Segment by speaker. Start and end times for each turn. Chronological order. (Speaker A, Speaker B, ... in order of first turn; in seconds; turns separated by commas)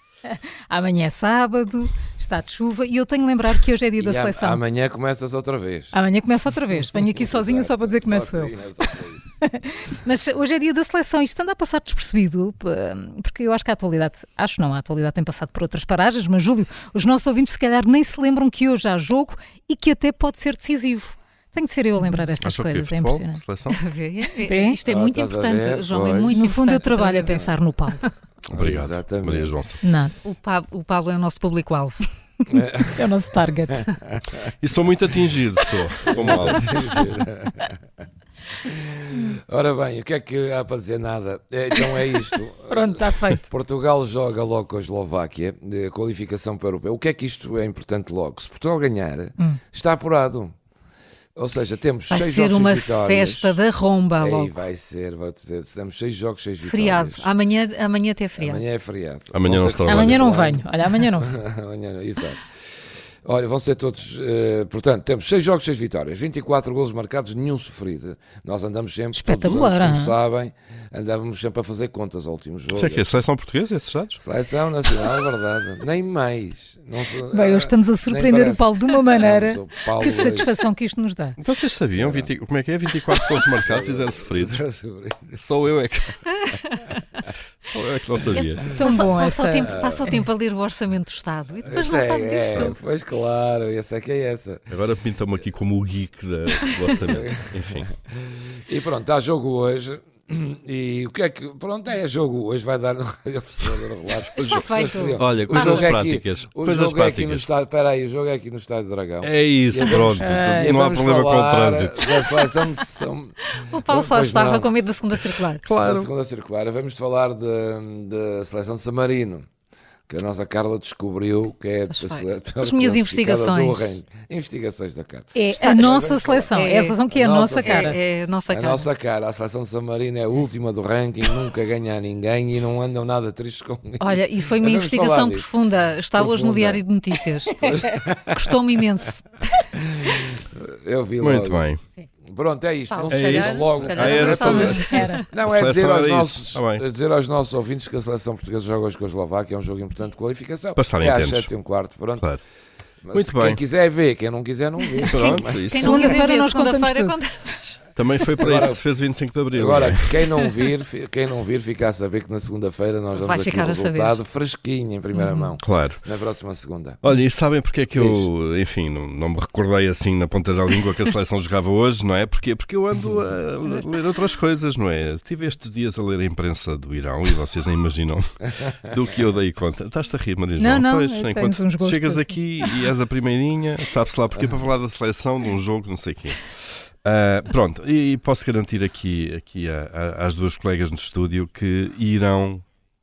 Speaker A: 0.3-4.6, Speaker B: 4.0-6.0, Speaker A: 5.9-8.5, Speaker B: 6.9-9.3, Speaker A: 9.4-23.4, Speaker C: 22.4-23.8, Speaker D: 23.7-28.1, Speaker A: 24.4-24.8, Speaker B: 24.9-26.4, Speaker A: 26.3-28.1, Speaker C: 28.5-29.8, Speaker B: 28.5-29.6, Speaker A: 29.8-30.1, Speaker D: 30.2-32.1, Speaker B: 32.5-33.1, Speaker A: 33.0-33.9, Speaker B: 33.7-34.5, Speaker C: 34.6-36.7, Speaker B: 36.1-37.8, Speaker B: 38.6-50.5, Speaker A: 42.7-43.4, Speaker B: 51.4-53.6, Speaker D: 52.1-54.6, Speaker B: 54.2-57.3, Speaker D: 56.6-58.6, Speaker B: 58.4-60.7, Speaker C: 59.3-60.2, Speaker A: 59.9-61.3, Speaker B: 61.2-62.5, Speaker B: 63.2-73.1, Speaker A: 69.1-70.2, Speaker C: 72.7-74.2, Speaker B: 74.2-80.5, Speaker A: 77.3-81.4, Speaker C: 81.4-84.6, Speaker B: 82.0-82.3, Speaker B: 83.7-85.4, Speaker C: 85.4-86.5, Speaker C: 87.6-88.6, Speaker A: 88.3-90.1, Speaker D: 88.8-92.8, Speaker B: 89.6-90.1, Speaker B: 91.7-94.7, Speaker C: 94.7-97.9, Speaker B: 97.1-97.5, Speaker B: 98.7-114.7, Speaker D: 104.4-105.8, Speaker C: 105.2-107.5, Speaker C: 109.2-112.2, Speaker A: 109.8-110.8, Speaker D: 113.5-115.7, Speaker C: 115.6-116.1, Speaker B: 115.8-119.5, Speaker B: 120.1-126.5, Speaker D: 121.9-123.9, Speaker A: 125.3-128.0, Speaker D: 125.6-127.0, Speaker B: 127.1-128.0, Speaker D: 127.6-128.9, Speaker B: 128.5-135.5, Speaker D: 134.0-137.8, Speaker B: 136.1-136.8, Speaker B: 137.6-138.6, Speaker D: 138.3-139.3, Speaker B: 139.8-141.7, Speaker C: 141.2-141.8, Speaker B: 142.3-152.3, Speaker D: 142.9-145.2, Speaker C: 143.1-144.9, Speaker A: 144.0-145.2, Speaker C: 145.4-146.8, Speaker C: 150.8-151.5, Speaker B: 153.0-155.7, Speaker C: 153.1-153.6, Speaker D: 155.0-157.9, Speaker C: 155.1-156.1, Speaker A: 155.7-157.2, Speaker C: 158.0-160.5, Speaker B: 158.4-158.8, Speaker B: 159.5-167.0, Speaker D: 163.1-164.2, Speaker C: 165.6-166.0, Speaker C: 167.0-192.6, Speaker B: 167.9-168.3, Speaker A: 180.6-182.4